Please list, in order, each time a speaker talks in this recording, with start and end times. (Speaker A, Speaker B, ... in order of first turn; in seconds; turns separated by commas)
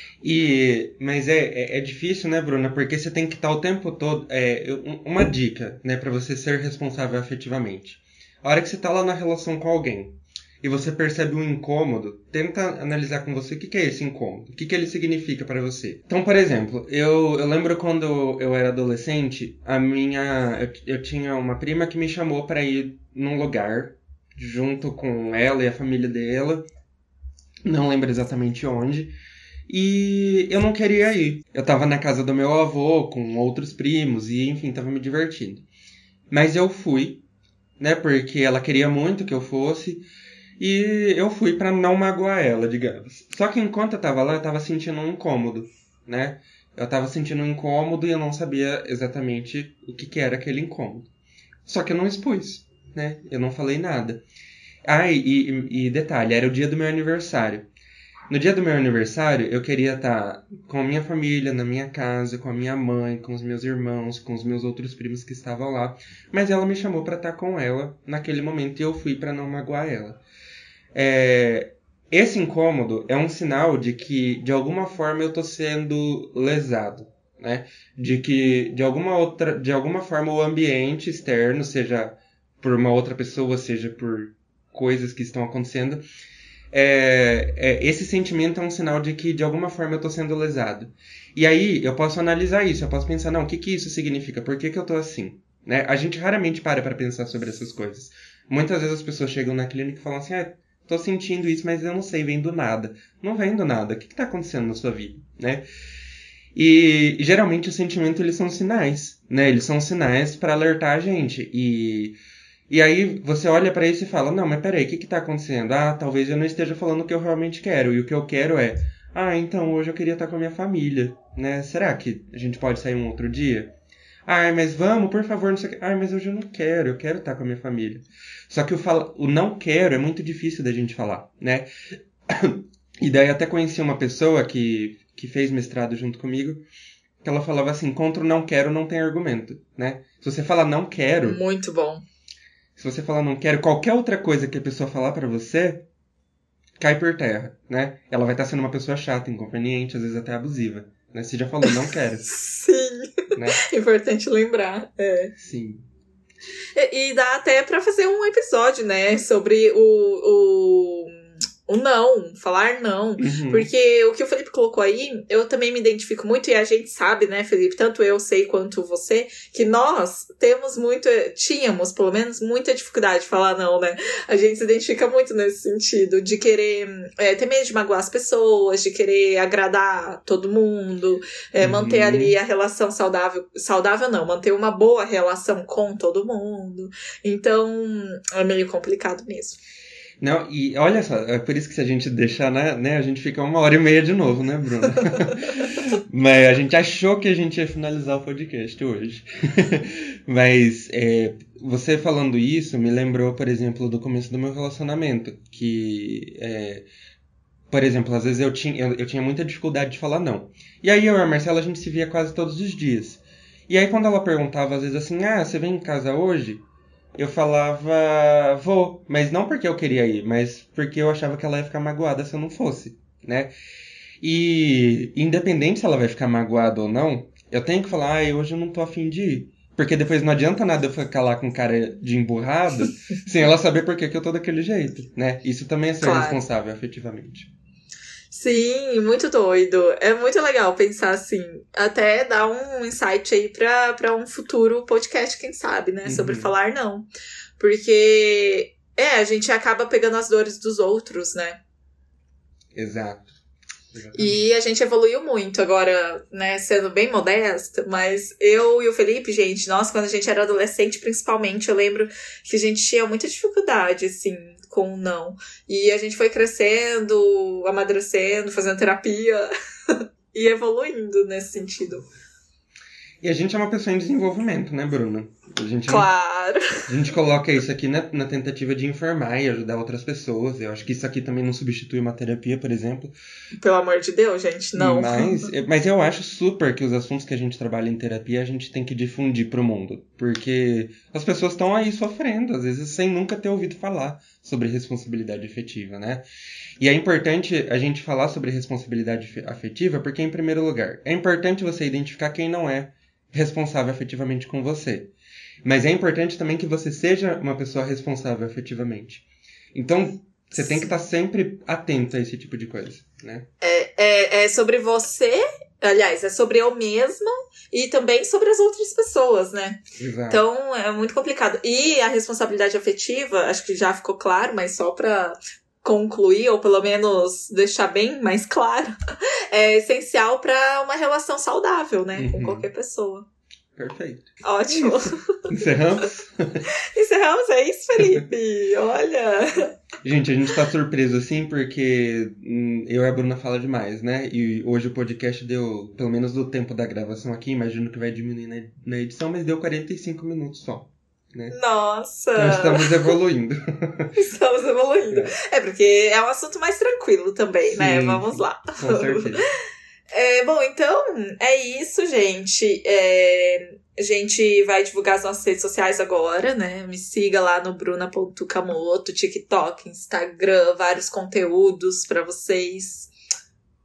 Speaker A: 0.2-26.6, Speaker A: 27.6-29.1, Speaker A: 29.7-35.6, Speaker A: 36.3-37.2, Speaker A: 37.8-40.0, Speaker A: 40.6-51.1, Speaker A: 51.6-54.2, Speaker A: 54.9-57.7, Speaker A: 58.3-70.2, Speaker A: 70.9-86.0, Speaker A: 86.7-105.6, Speaker A: 106.5-112.2, Speaker A: 112.7-123.7, Speaker A: 124.2-131.7, Speaker A: 132.3-136.6, Speaker A: 137.2-141.4, Speaker B: 141.2-142.0, Speaker A: 142.8-145.8, Speaker A: 146.8-152.3, Speaker B: 152.3-155.3, Speaker A: 153.3-153.6, Speaker A: 155.4-155.8, Speaker B: 156.8-189.6, Speaker A: 163.2-163.7, Speaker A: 181.6-182.3, Speaker A: 190.2-206.9, Speaker A: 207.7-216.6, Speaker A: 217.2-223.5, Speaker A: 224.2-237.5, Speaker B: 236.0-236.4, Speaker B: 238.3-247.1, Speaker A: 246.0-246.5, Speaker B: 247.6-251.6, Speaker A: 252.7-253.3, Speaker A: 253.9-254.4, Speaker B: 254.1-272.1, Speaker A: 273.2-276.1, Speaker B: 275.9-276.9, Speaker A: 276.9-283.1, Speaker B: 283.6-285.5, Speaker A: 284.8-296.2, Speaker A: 296.8-305.1, Speaker A: 305.6-313.5, Speaker B: 313.6-328.9, Speaker A: 319.9-320.4, Speaker B: 329.5-333.2, Speaker A: 332.1-332.7, Speaker A: 333.7-336.6, Speaker B: 334.4-335.5, Speaker B: 336.9-339.7, Speaker A: 338.0-338.2, Speaker A: 340.0-351.6, Speaker B: 351.5-353.1, Speaker A: 352.4-354.1, Speaker B: 354.1-359.4, Speaker A: 357.6-359.4, Speaker B: 360.1-373.1